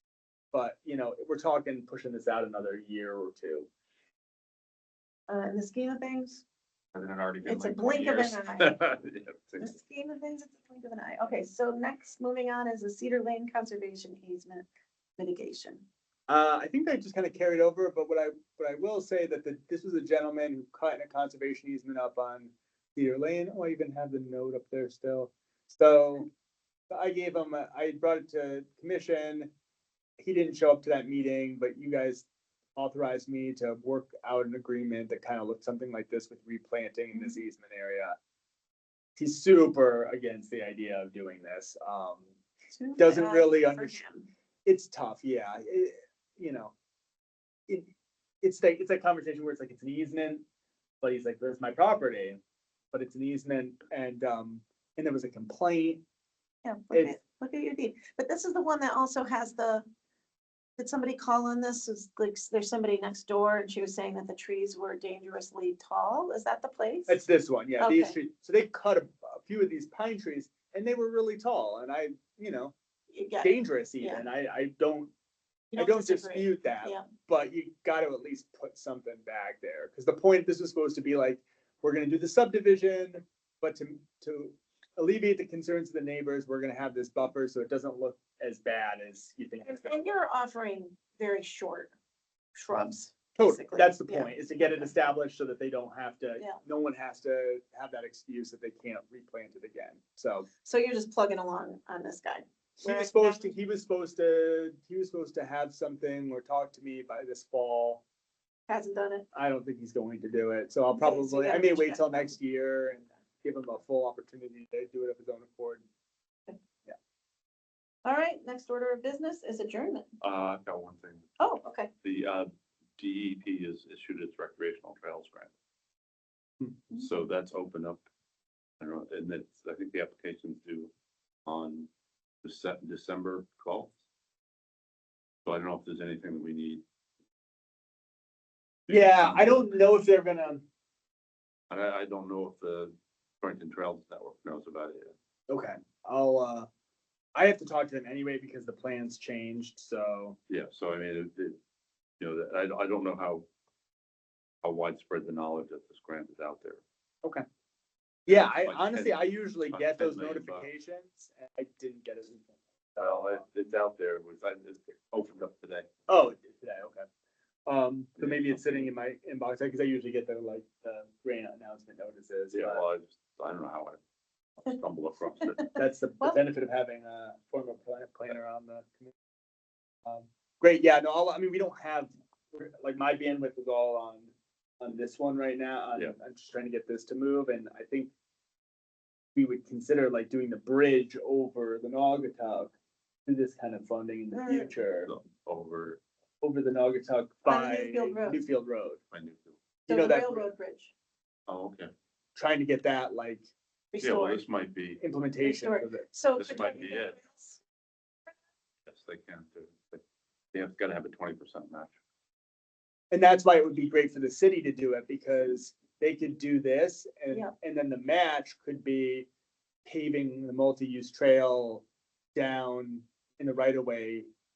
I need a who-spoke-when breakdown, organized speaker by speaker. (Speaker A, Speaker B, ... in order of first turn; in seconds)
Speaker A: 0.5-3.7, 16.3-26.3, 26.9-29.5, 30.2-32.3, 32.8-38.1, 39.2-42.3, 43.0-44.0, 44.7-46.7, 48.4-50.4, 51.0-52.4, 52.9-56.0, 67.1-72.8, 73.4-75.1, 75.8-90.0, 93.4-100.5, 102.8-108.0, 109.3-115.8, 138.9-140.6, 145.5-146.7, 147.3-150.4, 158.3-163.5, 166.1-167.1, 167.7-172.8, 175.8-179.1, 180.1-188.1, 189.3-192.7, 193.3-195.1, 196.4-199.0, 199.9-200.5, 202.4-203.5, 205.0-206.1, 213.1-219.3, 219.8-221.8, 222.4-224.3
Speaker B: 5.3-6.4, 7.4-8.8, 9.6-14.7, 15.2-15.8, 42.7-44.3, 56.6-59.9, 60.8-67.2, 67.8-68.2, 73.1-74.2, 75.7-77.0, 89.6-91.9, 92.5-94.9, 100.7-103.5, 108.7-109.3, 110.9-112.3, 118.0-120.1, 121.4-121.9, 175.6-176.4, 194.3-194.7, 197.5-198.4, 199.9-200.9, 203.9-204.4, 205.4-207.6
Speaker C: 6.9-9.8, 120.2-121.4, 122.0-125.5, 126.9-128.0, 128.8-130.9, 131.5-131.9, 132.4-134.0, 135.4-136.8, 138.9-139.7, 141.7-145.2, 150.5-151.6, 152.2-153.5, 154.6-156.8, 158.3-160.7, 163.0-165.9, 168.2-168.9, 172.5-174.0, 174.6-175.7, 195.1-196.0, 199.1-199.6, 201.5-201.9, 204.0-205.0, 206.4-207.2, 208.9-210.0, 210.5-211.9